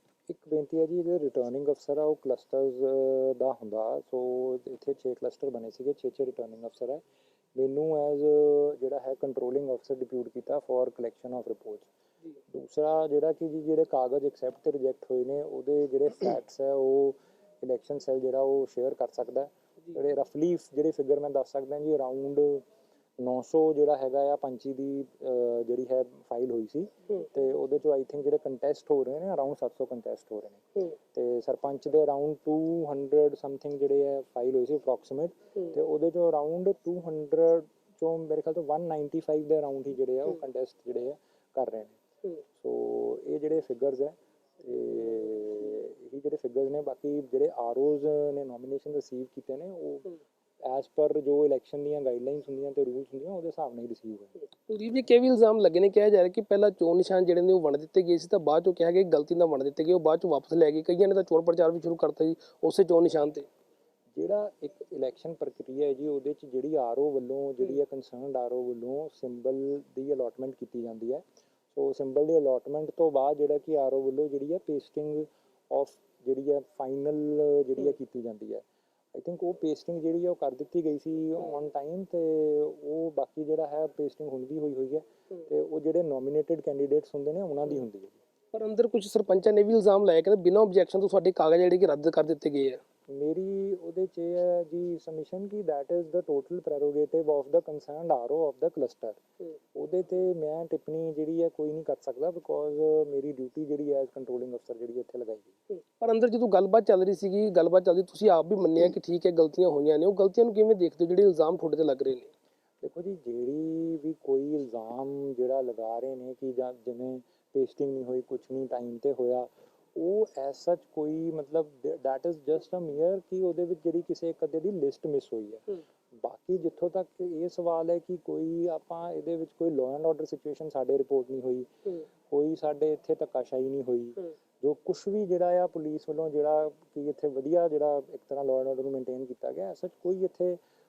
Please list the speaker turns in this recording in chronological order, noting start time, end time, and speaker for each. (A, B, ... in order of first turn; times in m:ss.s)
0:00.3-0:07.0 A
0:07.6-0:11.9 A
0:12.5-0:22.6 A
0:23.2-0:42.0 A
0:42.6-0:54.3 A
0:54.7-1:03.4 B
1:04.1-1:18.6 A
1:19.1-1:28.2 A
1:28.5-1:32.8 B
1:33.1-1:39.2 A
1:39.8-1:45.6 A
1:46.0-1:52.3 B
1:52.8-2:11.7 A
2:12.3-2:20.6 A